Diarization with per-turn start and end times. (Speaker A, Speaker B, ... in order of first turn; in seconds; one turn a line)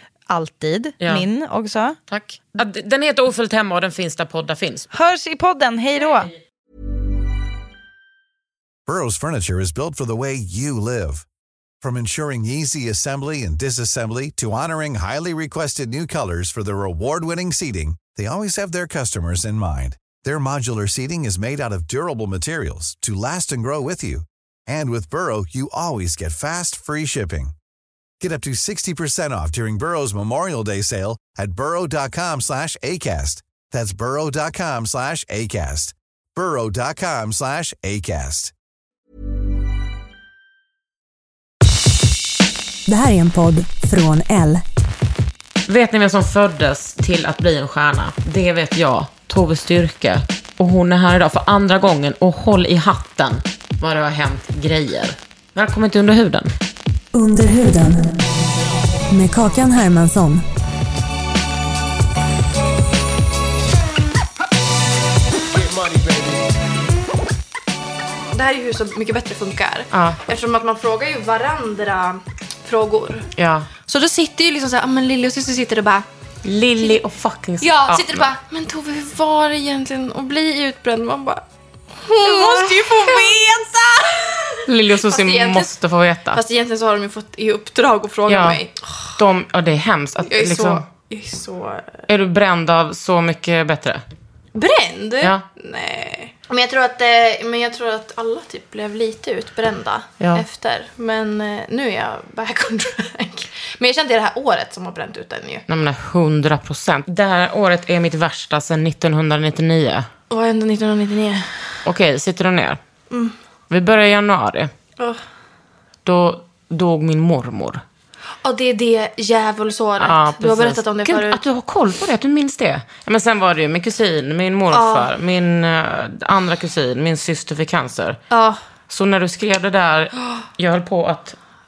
Speaker A: 0.3-2.0
Speaker B: 1.0-1.2
Speaker B: 2.1-4.9
Speaker A: 4.9-6.3
Speaker C: 8.9-11.2
Speaker C: 11.8-27.5
Speaker C: 28.2-38.5
Speaker D: 42.9-44.6
Speaker B: 45.7-56.5
Speaker D: 57.1-58.2
Speaker D: 59.1-60.5
Speaker E: 68.3-73.3
Speaker B: 69.9-70.2
Speaker B: 73.4-73.7
Speaker E: 73.9-76.0
Speaker B: 76.4-78.3
Speaker E: 77.6-81.4
Speaker E: 82.0-85.7
Speaker B: 82.2-83.2
Speaker B: 84.7-86.4
Speaker E: 86.3-88.7
Speaker B: 88.3-88.6
Speaker B: 89.2-90.8
Speaker E: 90.3-91.9
Speaker B: 92.1-94.0
Speaker E: 94.5-105.6
Speaker B: 100.2-100.5
Speaker B: 105.7-110.1
Speaker E: 110.3-111.5
Speaker B: 111.8-112.8
Speaker B: 113.7-114.7
Speaker B: 116.0-117.8
Speaker E: 118.4-121.4
Speaker B: 120.0-128.2
Speaker E: 124.7-125.1
Speaker E: 128.3-128.6
Speaker B: 128.9-131.4